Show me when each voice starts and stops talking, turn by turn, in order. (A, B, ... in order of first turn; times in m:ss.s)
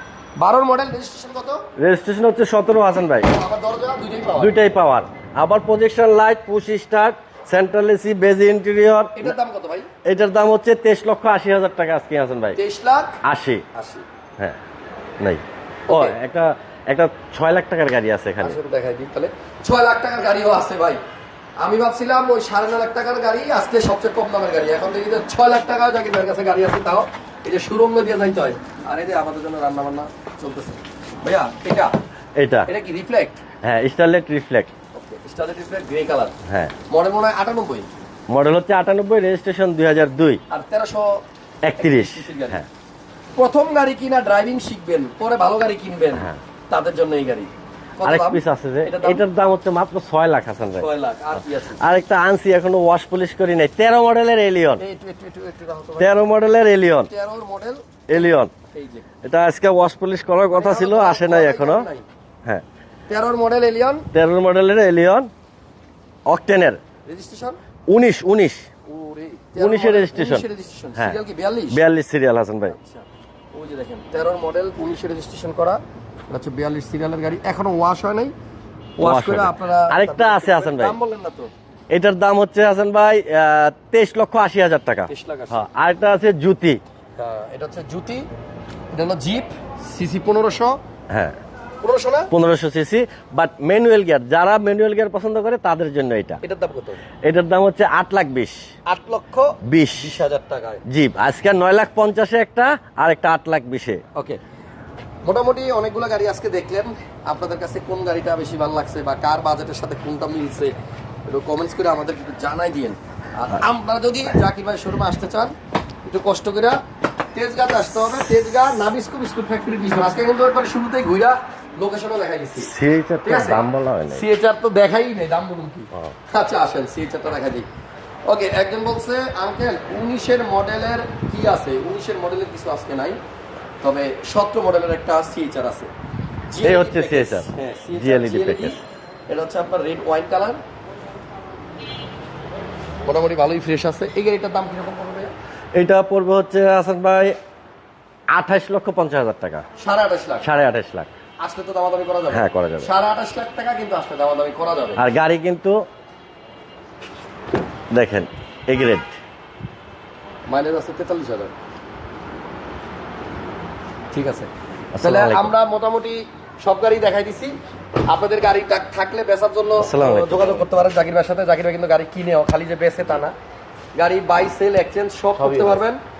0:00.4-0:01.6 A
0:01.8-0:03.3 B
0:03.3-0:04.6 A
0:04.4-0:09.3 B
0:09.2-0:09.9 A
0:10.0-0:12.6 B
0:12.6-0:13.2 A
0:13.2-0:13.6 B
0:13.7-0:14.0 A
0:15.2-0:18.6 B
0:15.9-0:16.2 A
0:18.4-0:21.0 A
0:21.6-0:31.9 A
0:32.4-0:32.7 B
0:32.7-0:33.4 A
0:33.6-0:34.7 B
0:34.9-0:36.4 A
0:36.5-0:36.8 B
0:36.9-0:37.9 A
0:38.3-0:40.4 B
0:40.5-0:41.2 A
0:41.6-0:42.7 B
0:41.8-0:42.6 A
0:43.4-0:49.2 A
0:46.1-0:46.4 B
0:48.0-0:50.9 B
0:50.8-0:52.0 A
0:51.8-0:54.8 B
0:54.8-0:56.2 A
0:56.0-0:57.1 B
0:57.1-0:59.1 A
0:58.1-0:58.5 B
0:59.2-1:01.9 B
1:00.5-1:02.1 A
1:03.1-1:04.1 A
1:04.1-1:05.3 B
1:06.3-1:06.8 B
1:07.0-1:07.6 A
1:07.9-1:08.7 B
1:08.9-1:11.8 A
1:09.6-1:10.4 B
1:11.7-1:12.8 B
1:12.7-1:18.3 A
1:19.0-1:21.5 A
1:19.0-1:20.9 B
1:21.9-1:26.8 B
1:25.1-1:25.6 A
1:27.2-1:28.3 A
1:28.9-1:30.8 A
1:31.1-1:31.4 B
1:31.8-1:32.3 A
1:32.3-1:36.4 B
1:36.4-1:37.0 A
1:37.2-1:38.6 B
1:38.9-1:40.8 A
1:39.6-1:40.2 B
1:40.8-1:44.0 B
1:44.1-1:44.4 A
1:45.2-1:50.7 A
1:51.3-1:55.6 A
1:56.1-1:56.8 A
1:57.3-2:07.6 A
2:02.6-2:04.2 B
2:08.3-2:13.2 A
2:13.8-2:15.9 A
2:16.5-2:20.6 A
2:16.6-2:18.8 B
2:23.0-2:25.3 A
2:25.8-2:27.4 B
2:28.3-2:29.6 B
2:29.8-2:30.4 A
2:30.4-2:31.1 B
2:31.4-2:35.0 A
2:32.3-2:32.9 B
2:35.0-2:35.8 B
2:37.9-2:39.1 B
2:40.5-2:41.5 A
2:44.1-2:44.5 A
2:44.9-2:45.5 B
2:45.0-2:47.6 A
2:48.1-2:53.3 A
2:49.8-2:50.7 B
2:54.0-2:56.0 A
2:55.4-2:55.8 B